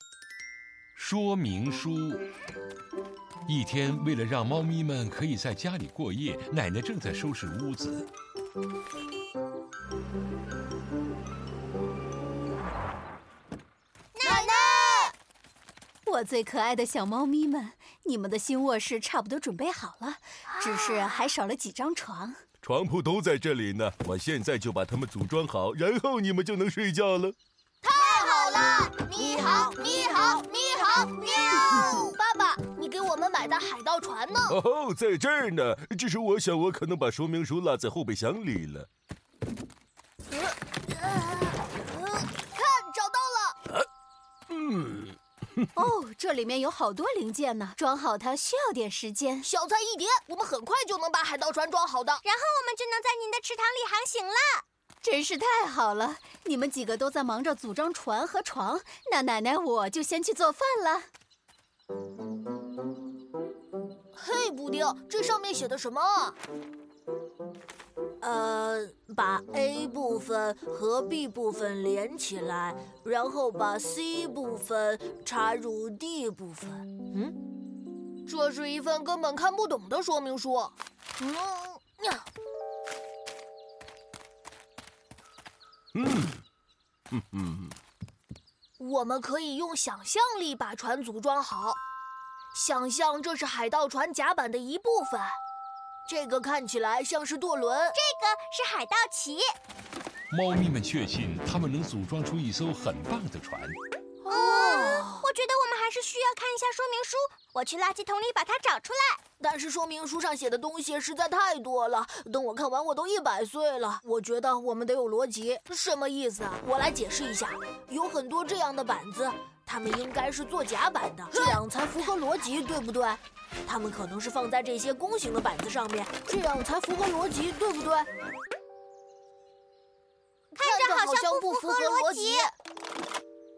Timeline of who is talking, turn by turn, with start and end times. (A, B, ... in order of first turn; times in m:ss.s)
0:00.9-0:02.2 A
0:03.4-0:08.1 A
0:14.1-0:15.1 B
0:14.2-0:14.5 C
0:16.0-0:22.4 D
0:20.6-0:21.2 B
0:22.6-0:27.4 E
0:27.8-0:34.6 C
0:27.9-0:32.1 B
0:34.5-0:38.9 E
0:40.3-0:43.6 C
0:44.5-0:45.1 E
0:45.7-0:49.5 D
0:49.4-0:52.2 C
0:52.2-0:54.6 B
0:55.0-1:01.1 D
1:04.1-1:06.4 C
1:08.2-1:17.3 C
1:18.2-1:22.2 C
1:25.9-1:26.4 E
1:27.1-1:27.7 E
1:28.8-1:31.8 C
1:32.5-1:35.4 C
1:36.0-1:38.0 C
1:37.9-1:39.5 B
1:40.3-1:43.8 A
1:44.2-1:45.2 C
1:44.3-1:49.2 B
1:49.4-2:08.1 C
2:01.3-2:01.6 B
2:10.5-2:12.5 B
2:10.6-2:12.5 C